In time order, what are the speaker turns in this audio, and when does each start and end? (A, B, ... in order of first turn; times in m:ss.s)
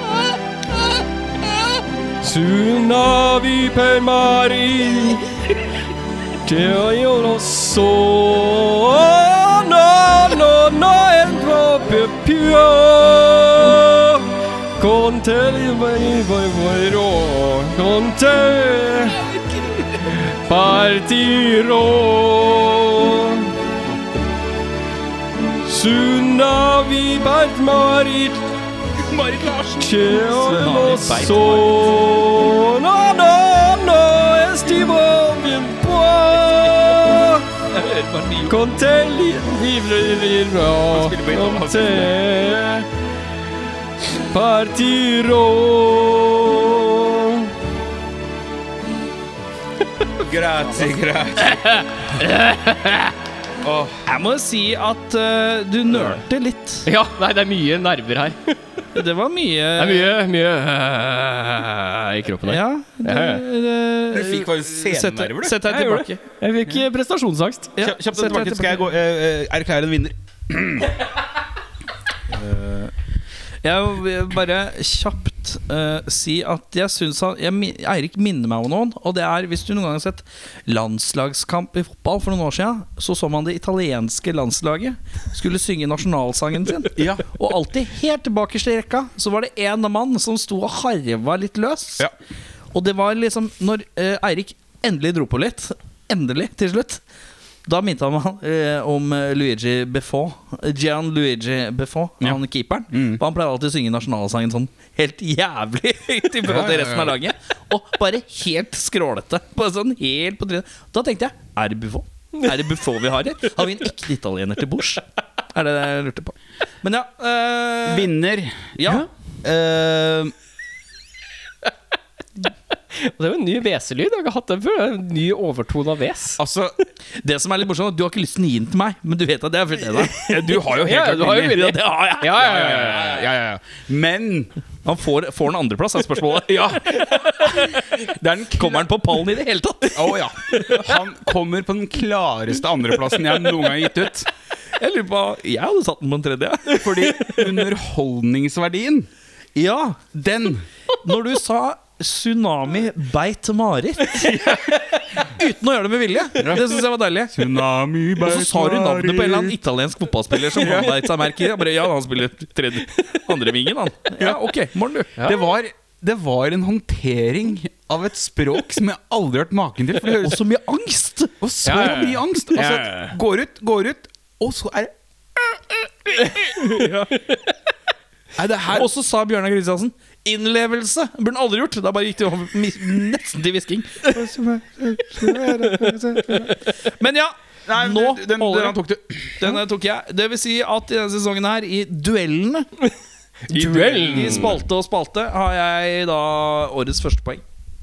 0:02.2-0:05.4 A
0:06.4-0:19.2 A
0:20.4-0:23.5 A
0:25.6-0:28.4 A
0:29.0-0:30.7 B
0:29.8-0:37.5 A
0:30.1-0:32.3 C
0:36.4-0:37.0 C
0:37.7-0:38.6 C
0:38.5-0:42.9 A
0:40.9-0:42.2 B
0:44.2-0:47.5 A
0:50.2-0:51.6 B
0:51.5-0:53.2 C
0:53.6-0:54.0 B
0:54.1-0:56.9 C
0:56.8-0:58.6 A
0:58.9-1:00.2 C
0:59.8-1:03.4 A
1:02.4-1:06.2 C
1:04.1-1:05.6 B
1:05.7-1:07.8 A
1:07.8-1:08.9 C
1:07.8-1:10.9 B
1:12.3-1:12.9 C
1:13.6-1:32.1 C
1:27.0-1:27.3 B
1:32.7-1:37.0 C
1:37.6-1:58.1 C
1:42.9-1:43.2 B
1:46.5-1:47.2 B
1:57.9-2:00.3 B
1:58.8-1:59.1 C
2:02.9-2:06.4 A
2:06.4-2:06.8 B
2:07.2-2:10.2 C
2:10.1-2:11.7 B
2:10.6-2:13.2 A
2:11.2-2:12.4 C
2:12.4-2:14.5 B
2:14.8-2:16.8 C
2:16.4-2:19.1 B
2:18.5-2:21.0 C
2:19.9-2:24.3 B
2:24.8-2:27.5 C
2:26.8-2:29.1 B
2:29.6-2:30.0 C
2:30.1-2:30.7 B
2:31.0-2:34.3 C
2:34.1-2:35.2 A
2:35.3-2:37.4 C
2:36.4-2:36.7 B
2:37.3-2:39.6 B
2:38.2-2:45.3 C
2:40.6-2:41.0 B
2:45.2-2:50.4 B
2:50.0-2:51.3 C
2:51.4-2:55.6 B
2:51.6-2:53.2 A
2:56.6-2:57.1 C
2:58.4-2:58.9 B
2:58.7-3:08.8 C
3:05.2-3:05.9 A
3:07.7-3:09.6 B
3:09.4-3:12.7 C
3:13.5-3:14.6 A
3:13.5-3:17.4 C
3:14.1-3:14.5 B